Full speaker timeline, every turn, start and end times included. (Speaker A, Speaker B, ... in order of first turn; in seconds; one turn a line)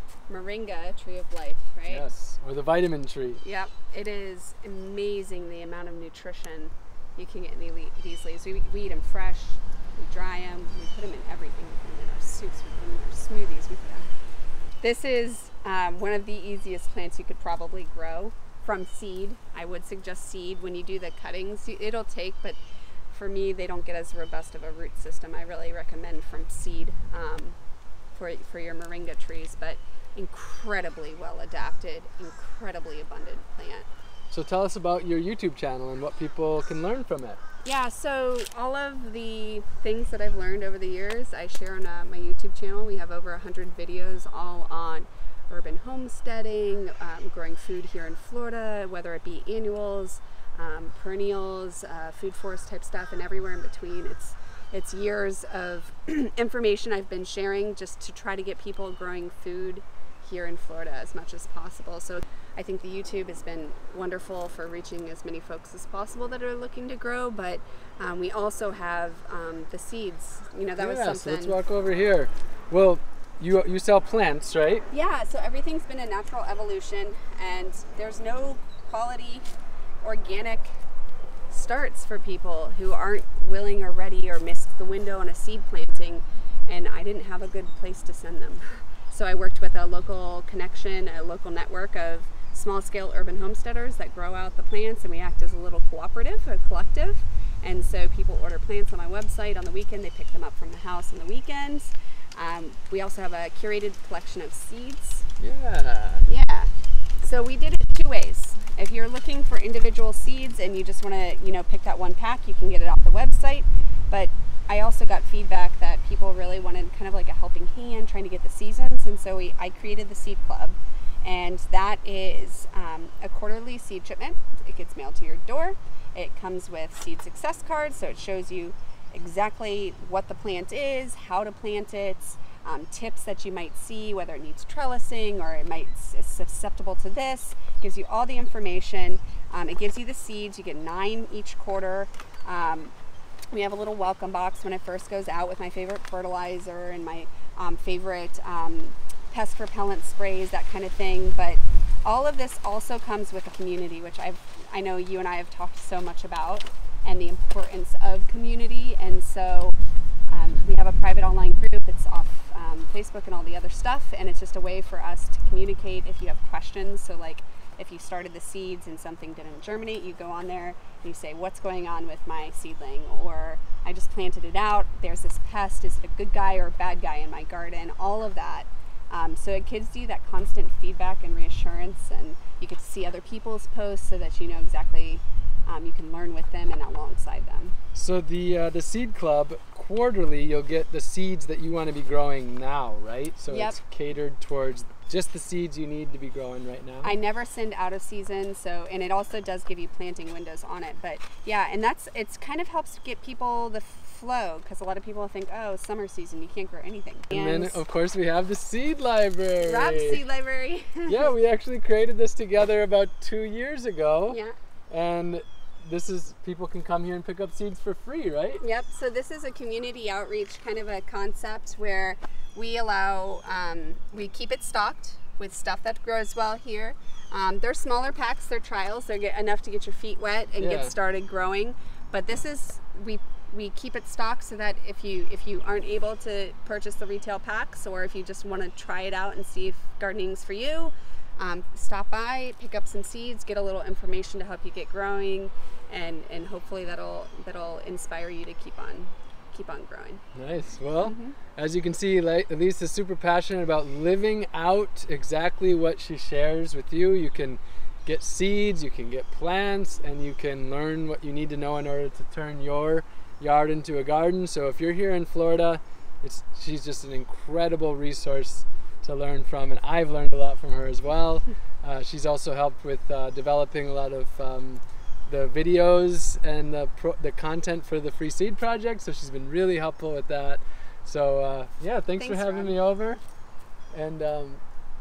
Speaker A: 0.3-2.0
Speaker B: 1.9-3.4
Speaker A: 3.4-14.1
Speaker A: 14.8-22.6
Speaker A: 23.1-27.6
Speaker A: 28.1-33.9
Speaker B: 34.3-37.4
Speaker A: 37.6-71.6
Speaker B: 70.8-74.8
Speaker A: 74.9-79.5
Speaker A: 80.0-80.7
Speaker A: 81.5-105.3
Speaker B: 105.4-106.3
Speaker A: 106.3-106.7
Speaker A: 107.2-142.9
Speaker A: 143.5-159.8
Speaker A: 160.3-187.8
Speaker B: 187.9-197.1
Speaker A: 193.5-193.8
Speaker A: 197.0-207.8
Speaker B: 207.3-210.2
Speaker A: 209.6-211.3
Speaker B: 211.1-218.6
Speaker A: 214.3-214.5
Speaker A: 218.6-250.2
Speaker B: 230.6-230.9
Speaker B: 250.3-283.2
Speaker A: 251.0-251.4
Speaker A: 282.1-282.8
Speaker B: 283.9-284.6